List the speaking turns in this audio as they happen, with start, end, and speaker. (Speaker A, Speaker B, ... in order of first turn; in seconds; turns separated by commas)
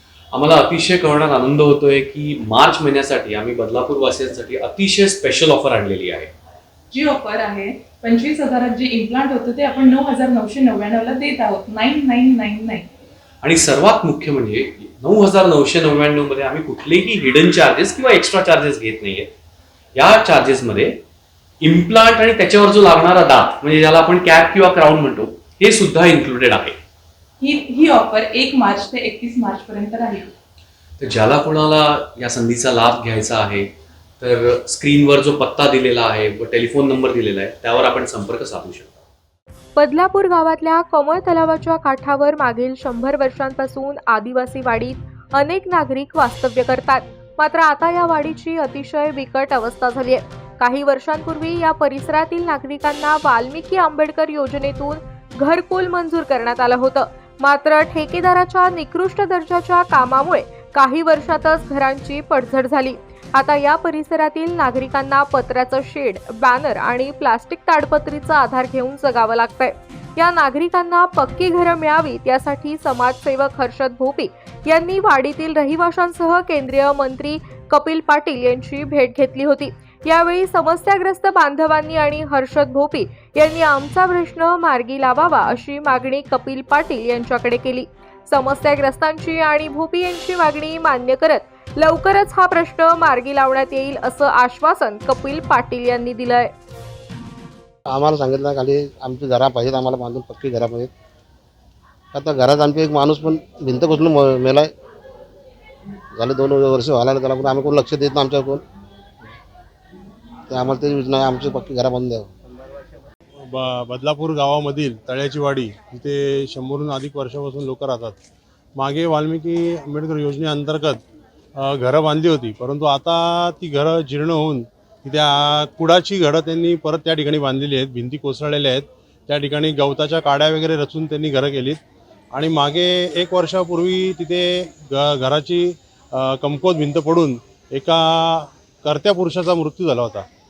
Speaker A: 0.3-6.3, Speaker B: 6.9-12.9, Speaker A: 13.4-19.3, Speaker A: 20.0-21.0, Speaker A: 21.6-26.8, Speaker B: 27.4-30.3, Speaker A: 31.0-33.7, Speaker A: 34.2-39.0, Speaker C: 39.8-96.5, Speaker D: 97.9-100.9, Speaker D: 102.1-104.7, Speaker D: 106.1-108.6, Speaker D: 110.5-112.3, Speaker E: 113.5-118.2, Speaker E: 118.8-121.0, Speaker E: 121.6-131.8, Speaker E: 132.3-140.3